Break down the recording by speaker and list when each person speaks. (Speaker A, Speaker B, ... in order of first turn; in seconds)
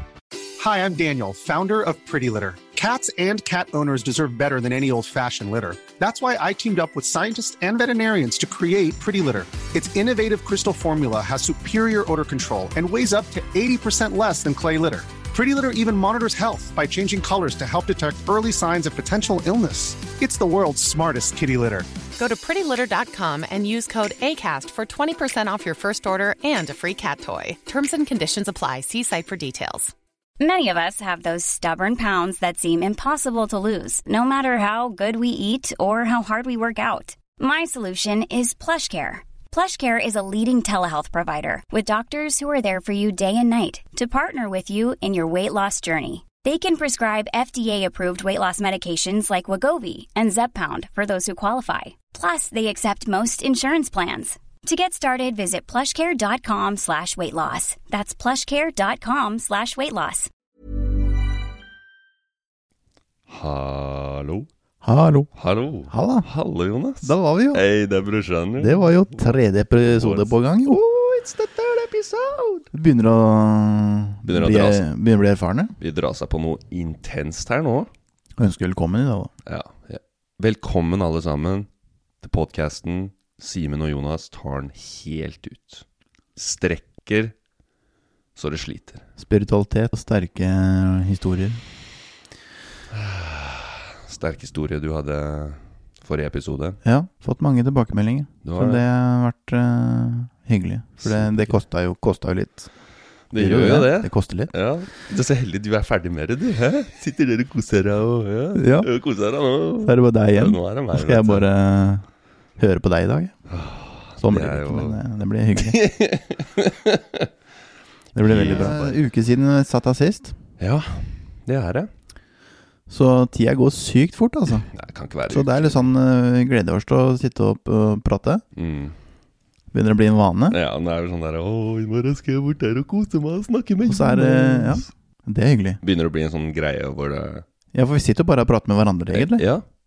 Speaker A: 0.6-22.0
Speaker B: 22.2-29.9
Speaker C: 30.4-60.3
Speaker D: 63.3-64.5, 65.3-69.2, 69.8-72.7, 74.2-74.9, 75.8-77.9, 79.5-81.7, 82.2-85.8, 86.4-87.3, 88.4-89.0, 92.9-96.8, 98.4-98.8, 101.0-101.6, 103.3-111.5, 113.5-115.0, 115.6-117.3, 118.2-119.0, 120.6-121.9, 124.5-125.9, 128.6-129.0, 130.5-134.9, 135.8-137.4, 139.1-139.7
Speaker E: 64.8-65.3, 65.9-66.3, 67.0-67.6, 68.6-70.8, 72.7-75.7, 78.4-79.3, 89.2-91.6, 96.8-102.7, 103.3-104.5, 108.5-108.9, 109.8-113.3, 114.2-115.8, 118.1-120.4, 122.9-124.7, 125.3-128.4, 129.7-130.6, 133.8-135.8, 137.7-139.4